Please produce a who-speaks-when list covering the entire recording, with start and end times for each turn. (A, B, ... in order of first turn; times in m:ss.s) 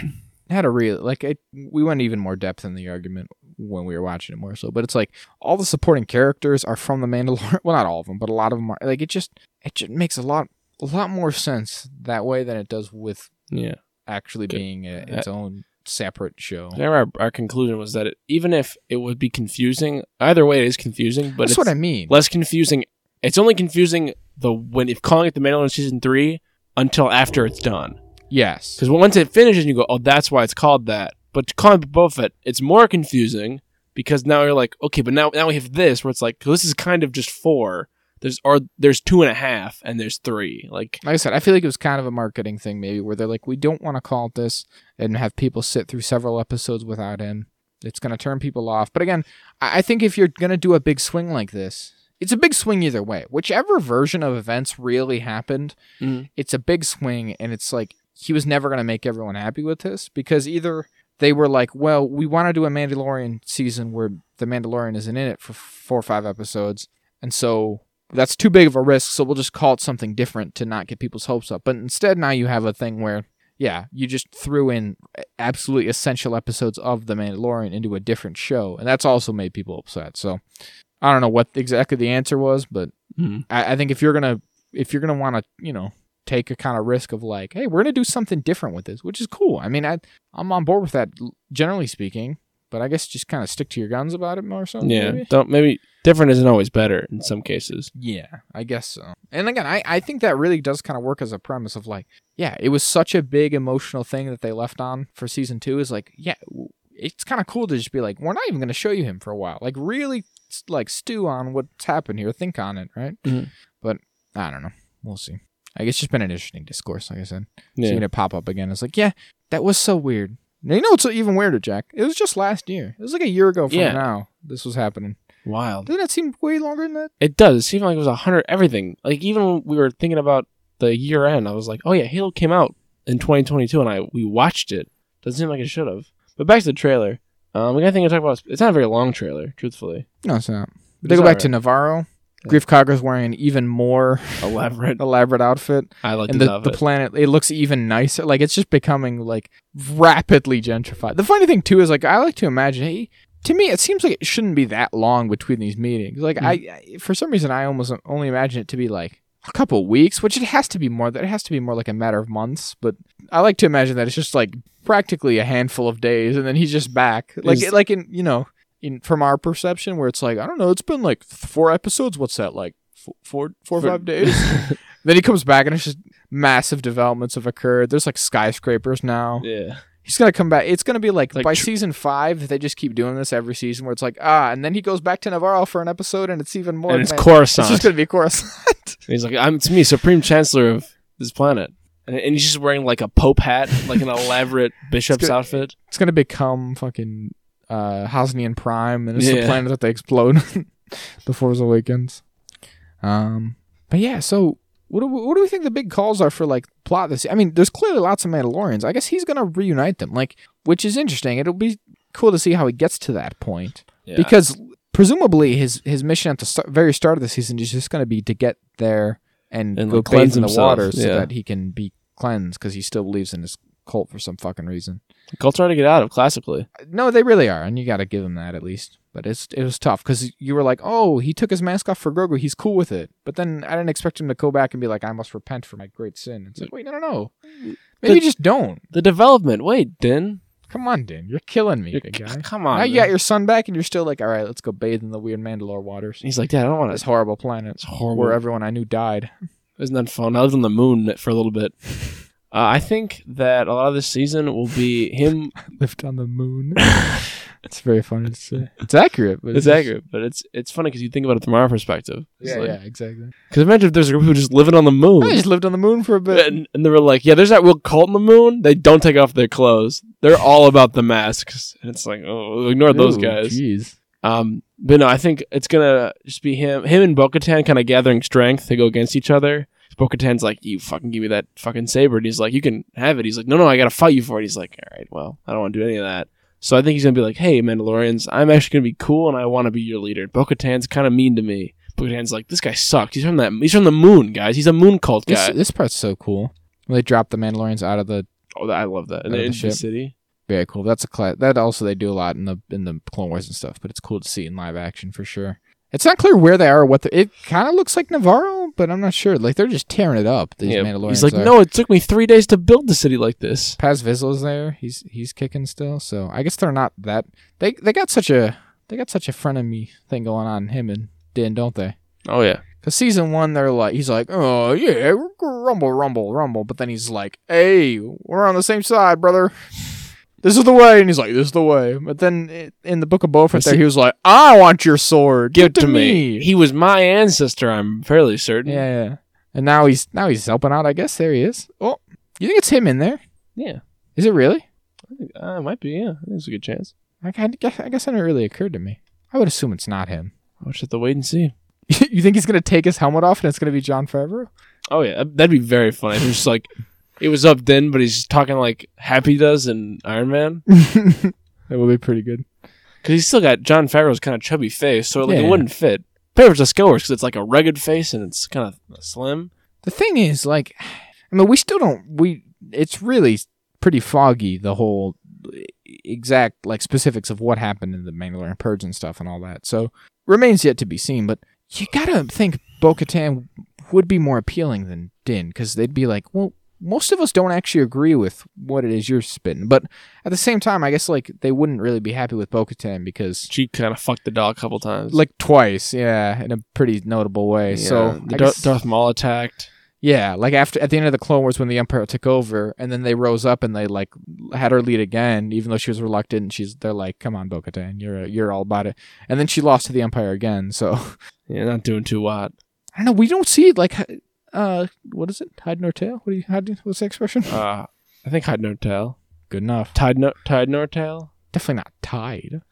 0:00.5-0:13.3 A
0:13.5-0:13.8 B
0:14.0-0:16.8 A
0:14.5-0:15.2 B
0:16.7-0:28.0 B
0:21.4-0:22.2 A
0:28.3-0:28.8 A
0:28.8-0:41.0 B
0:41.0-0:55.8 A
0:56.0-0:56.3 B
0:56.3-1:20.4 A
1:21.0-1:22.9 A
1:23.2-1:23.4 B
1:23.5-1:35.3 A
1:34.8-1:37.9 B
1:37.9-1:53.2 A
1:53.2-1:53.5 B
1:53.8-2:05.2 A
1:57.8-1:58.0 B
2:03.7-2:04.0 B
2:05.4-2:05.9 B
2:05.8-2:07.1 A
2:07.2-2:20.0 B
2:20.2-2:59.5 A
2:21.0-2:21.5 B
2:24.4-2:25.0 B
2:26.0-2:26.8 B
2:47.4-2:47.7 B
2:53.8-2:54.8 B
2:59.4-2:59.8 B
3:00.0-3:09.0 A
3:01.3-3:01.7 B
3:06.9-3:07.9 B
3:09.1-3:15.7 B
3:15.1-3:22.2 A
3:19.2-3:19.6 B
3:23.0-3:45.0 A
3:34.0-3:34.3 B
3:39.8-3:41.3 B
3:45.3-3:46.7 B
3:46.8-3:57.3 A
3:57.6-3:58.2 B
3:58.0-3:58.8 A
3:58.9-4:00.4 B
4:00.7-4:06.2 A
4:01.9-4:03.1 B
4:06.2-4:07.0 B
4:06.9-4:09.3 A
4:07.8-4:08.4 B
4:09.8-4:15.6 B
4:15.7-4:19.9 A
4:16.8-4:17.2 B
4:19.5-4:22.8 B
4:22.4-4:23.3 A
4:23.5-4:25.4 B
4:25.2-4:26.5 A
4:26.3-4:33.6 B
4:32.9-4:34.0 A
4:34.2-4:55.6 B
4:55.3-4:58.3 A
4:58.6-5:00.1 B
4:59.3-4:59.8 A
5:00.5-5:11.5 A
5:10.6-5:13.8 B
5:13.8-5:22.0 A
5:22.2-5:22.6 B
5:22.8-5:36.5 A
5:33.5-5:33.8 B
5:35.5-5:38.8 B
5:38.6-5:43.2 A
5:43.6-5:43.8 B
5:44.2-5:44.6 A
5:45.1-5:46.9 B
5:47.2-5:50.3 A
5:50.6-5:51.5 B
5:51.9-5:54.5 A
5:54.9-6:00.6 B
6:00.7-6:02.4 A
6:03.0-6:09.5 B
6:05.2-6:05.6 A
6:09.8-6:33.5 A
6:33.5-6:35.2 B
6:35.1-6:38.8 A
6:37.7-6:39.7 B
6:40.0-6:51.2 A
6:51.5-6:52.5 B
6:52.9-6:57.6 A
6:57.5-6:59.2 B
6:59.5-6:59.9 A
6:59.9-7:01.3 B
7:01.5-7:02.6 A